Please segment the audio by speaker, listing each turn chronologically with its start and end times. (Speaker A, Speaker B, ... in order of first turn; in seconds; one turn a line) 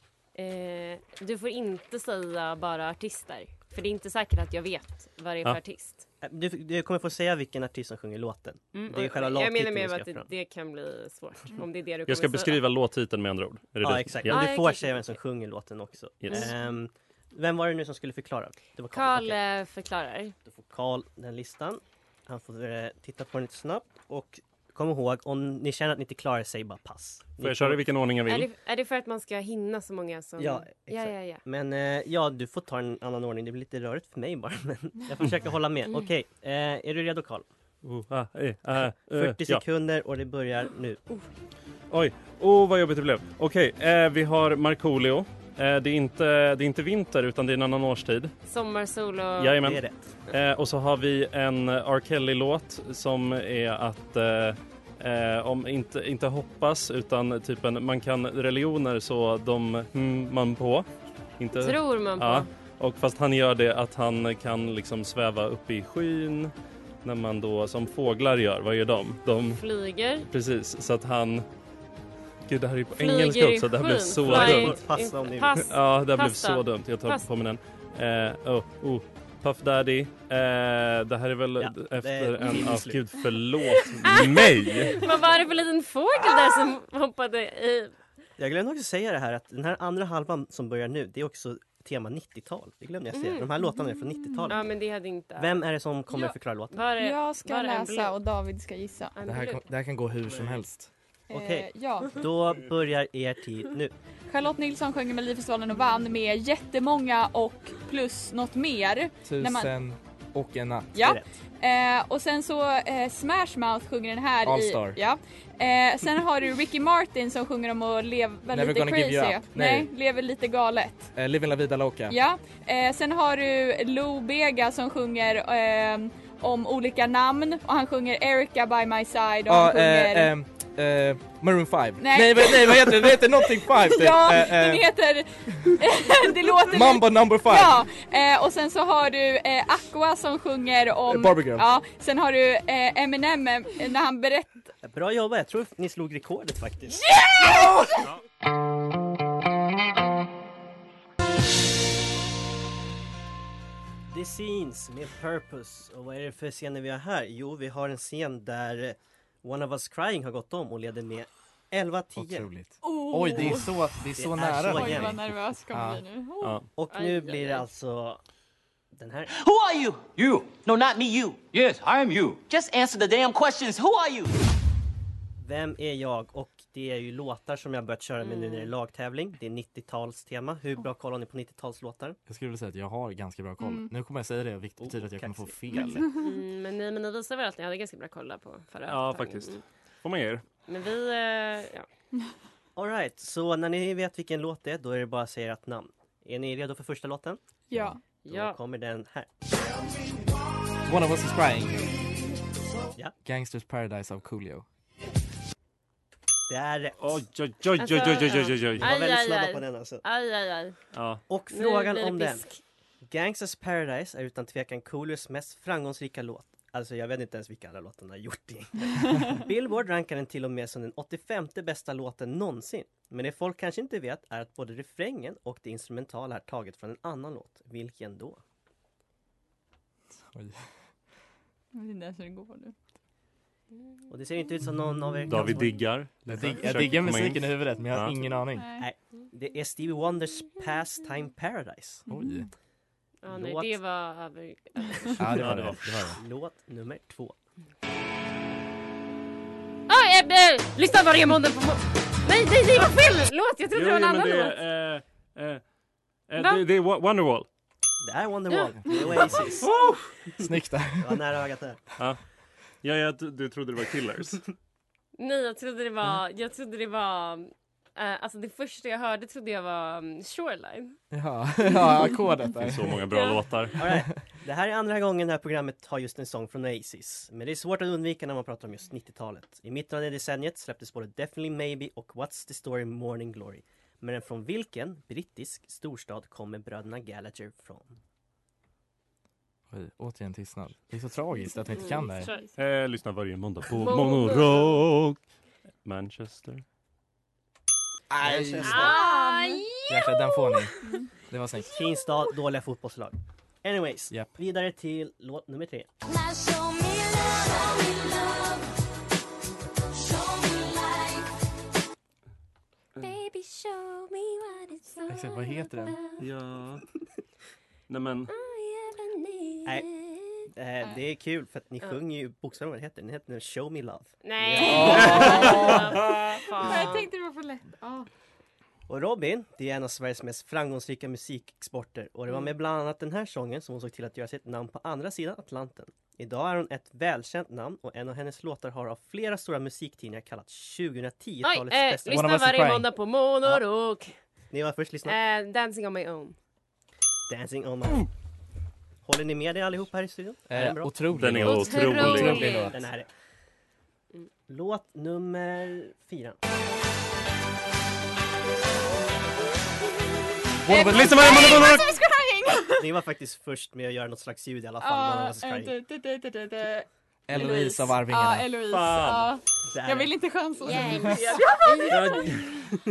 Speaker A: 0.3-6.1
Speaker B: 6.2-10.3
Speaker A: 8.7-12.6
Speaker C: 12.1-14.4
Speaker B: 13.8-19.4
Speaker A: 14.2-15.2
Speaker C: 16.2-16.5
Speaker A: 18.9-20.4
Speaker B: 20.4-27.9
Speaker C: 27.4-28.5
Speaker A: 28.2-31.4
Speaker B: 30.4-37.5
Speaker C: 37.8-39.6
Speaker B: 39.1-41.0
Speaker C: 41.9-48.3
Speaker A: 48.5-49.6
Speaker C: 49.4-60.9
Speaker B: 49.6-50.1
Speaker C: 61.4-66.5
Speaker A: 61.5-62.5
Speaker C: 67.0-69.6
Speaker A: 69.5-70.3
Speaker C: 70.3-71.5
Speaker C: 72.5-74.8
Speaker A: 73.0-77.3
Speaker B: 74.2-75.7
Speaker C: 75.6-85.1
Speaker B: 81.6-83.0
Speaker A: 83.8-88.0
Speaker B: 88.4-94.8
Speaker A: 93.1-93.5
Speaker D: 93.8-94.5
Speaker A: 94.5-95.6
Speaker B: 95.4-96.8
Speaker A: 96.7-98.2
Speaker D: 97.0-99.1
Speaker A: 99.1-99.6
Speaker E: 99.2-100.9
Speaker D: 101.3-102.2
Speaker B: 101.3-103.9
Speaker D: 104.3-109.7
Speaker E: 109.2-111.0
Speaker D: 111.0-121.1
Speaker B: 111.0-111.3
Speaker E: 114.4-115.0
Speaker E: 118.5-119.9
Speaker E: 121.1-122.2
Speaker D: 122.1-130.3
Speaker E: 129.5-134.9
Speaker D: 132.0-144.7
Speaker E: 135.5-135.8
Speaker E: 136.6-137.8
Speaker E: 141.1-141.7
Speaker B: 144.8-147.2
Speaker B: 154.1-162.5
Speaker E: 162.2-166.1
Speaker D: 162.8-163.7
Speaker B: 163.4-163.6
Speaker B: 164.1-165.1
Speaker D: 164.7-166.6
Speaker C: 166.4-166.7
Speaker B: 166.8-168.2
Speaker A: 166.9-167.7
Speaker B: 168.9-169.3
Speaker F: 169.3-174.3
Speaker B: 175.4-182.2
Speaker A: 178.2-178.7
Speaker E: 182.3-186.1
Speaker D: 183.6-183.9
Speaker B: 184.8-185.8
Speaker A: 186.1-189.6
Speaker C: 188.9-190.4
Speaker A: 190.7-191.9
Speaker B: 192.8-197.4
Speaker D: 197.7-198.0
Speaker A: 198.2-198.6
Speaker B: 198.3-199.3
Speaker E: 200.8-201.9
Speaker E: 203.2-204.7
Speaker B: 206.5-207.1
Speaker C: 207.0-208.9
Speaker A: 207.8-210.8
Speaker B: 208.8-210.0
Speaker C: 210.9-211.2
Speaker B: 211.3-212.4
Speaker A: 211.5-212.6
Speaker B: 213.1-228.4
Speaker E: 230.3-230.7
Speaker D: 231.7-232.8
Speaker B: 234.1-235.8
Speaker C: 235.3-238.2
Speaker E: 236.3-238.8
Speaker D: 238.6-238.9
Speaker B: 238.8-242.1
Speaker D: 242.1-242.4
Speaker E: 242.1-242.5
Speaker A: 243.2-245.4
Speaker B: 243.3-243.8
Speaker E: 245.2-246.2
Speaker C: 245.4-245.9
Speaker B: 246.2-247.3
Speaker A: 249.9-254.6
Speaker C: 253.7-255.6
Speaker C: 256.3-257.5
Speaker A: 256.4-256.6
Speaker B: 258.0-259.8
Speaker A: 258.5-259.7
Speaker E: 258.8-259.3
Speaker C: 259.6-260.1
Speaker E: 260.4-261.3
Speaker B: 261.0-261.8
Speaker C: 262.8-264.4
Speaker A: 265.2-271.0
Speaker E: 271.1-273.1
Speaker C: 272.6-273.8
Speaker B: 273.8-287.9
Speaker E: 289.7-292.3
Speaker A: 291.7-292.5
Speaker C: 292.6-295.3
Speaker A: 293.7-294.8
Speaker C: 295.8-296.6
Speaker E: 298.1-298.9
Speaker B: 298.2-299.0
Speaker A: 298.6-300.6
Speaker D: 298.8-299.6
Speaker E: 299.9-301.8
Speaker D: 300.8-301.1
Speaker B: 301.7-305.9
Speaker F: 306.1-308.7
Speaker F: 309.9-311.3
Speaker A: 313.0-316.3
Speaker E: 315.1-316.0
Speaker C: 316.2-316.8
Speaker C: 317.9-318.3
Speaker A: 318.3-320.5
Speaker B: 320.5-325.7
Speaker A: 324.2-327.1
Speaker E: 324.6-325.5
Speaker D: 324.6-325.7
Speaker C: 324.9-326.4
Speaker D: 326.6-328.1
Speaker B: 328.9-342.4
Speaker A: 341.4-344.2
Speaker E: 342.1-342.9
Speaker B: 344.5-345.1
Speaker A: 345.1-346.4
Speaker B: 347.3-348.1
Speaker B: 349.1-351.1
Speaker E: 350.5-352.9
Speaker C: 351.1-352.6
Speaker A: 351.4-352.8
Speaker B: 352.4-353.1
Speaker B: 354.5-356.4
Speaker C: 360.7-361.9
Speaker D: 360.7-362.8
Speaker E: 360.7-361.4
Speaker B: 362.8-365.7
Speaker D: 364.8-372.3
Speaker E: 367.3-368.5
Speaker C: 368.7-369.3
Speaker B: 369.7-370.2
Speaker A: 370.6-372.6
Speaker C: 371.9-372.5